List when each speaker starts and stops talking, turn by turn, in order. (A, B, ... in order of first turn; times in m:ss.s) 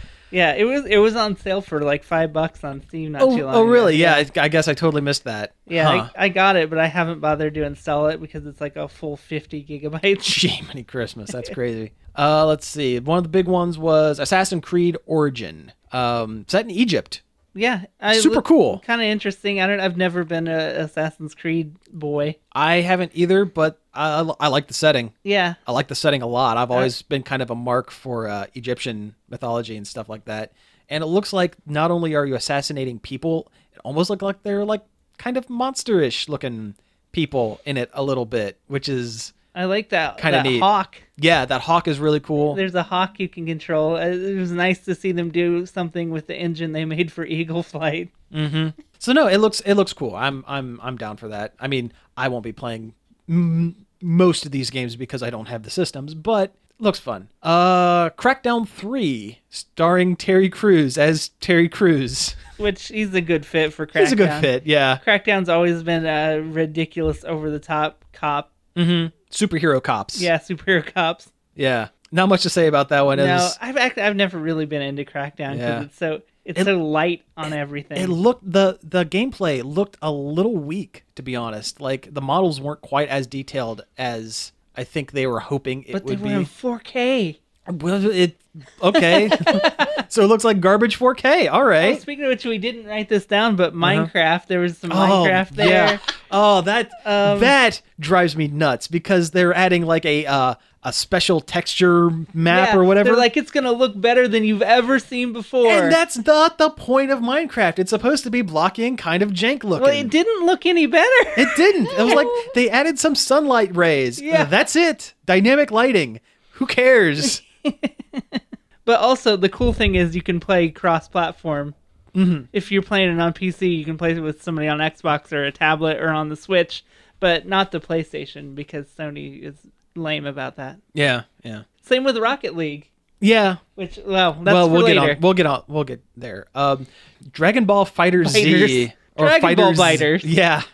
0:00.3-0:04.3 A
0:03.2-0:06.1 B
0:05.7-0:10.3 A
0:10.2-0:17.2 B
0:17.5-0:22.4 A
0:18.1-0:18.8 B
0:22.5-0:25.1 B
0:25.2-0:25.6 A
0:25.6-0:39.3 B
0:39.5-0:41.0 A
0:40.2-0:42.6 B
0:42.5-0:48.1 A
0:48.3-1:02.4 B
1:02.6-1:08.5 A
1:03.9-1:05.0 B
1:08.8-1:10.3 B
1:10.1-1:11.3 A
1:11.6-1:13.6 B
1:13.1-1:18.2 A
1:15.5-1:15.9 B
1:17.4-1:26.5 B
1:25.9-1:27.4 A
1:27.7-1:32.0 B
1:28.9-1:30.0 A
1:31.8-1:36.0 A
1:33.8-1:34.1 B
1:34.9-1:43.3 B
1:37.0-1:37.5 A
1:42.5-1:46.0 A
1:45.6-1:50.1 B
1:49.8-1:52.4 A
1:51.4-1:57.4 B
1:54.2-1:54.5 A
1:57.2-2:01.7 A
2:02.1-2:02.5 B
2:02.5-2:10.8 A
2:10.9-2:11.6 B
2:11.8-2:12.9 A
2:13.2-2:13.6 B
2:13.8-2:15.2 A
2:14.4-2:20.6 B
2:18.2-2:20.3 A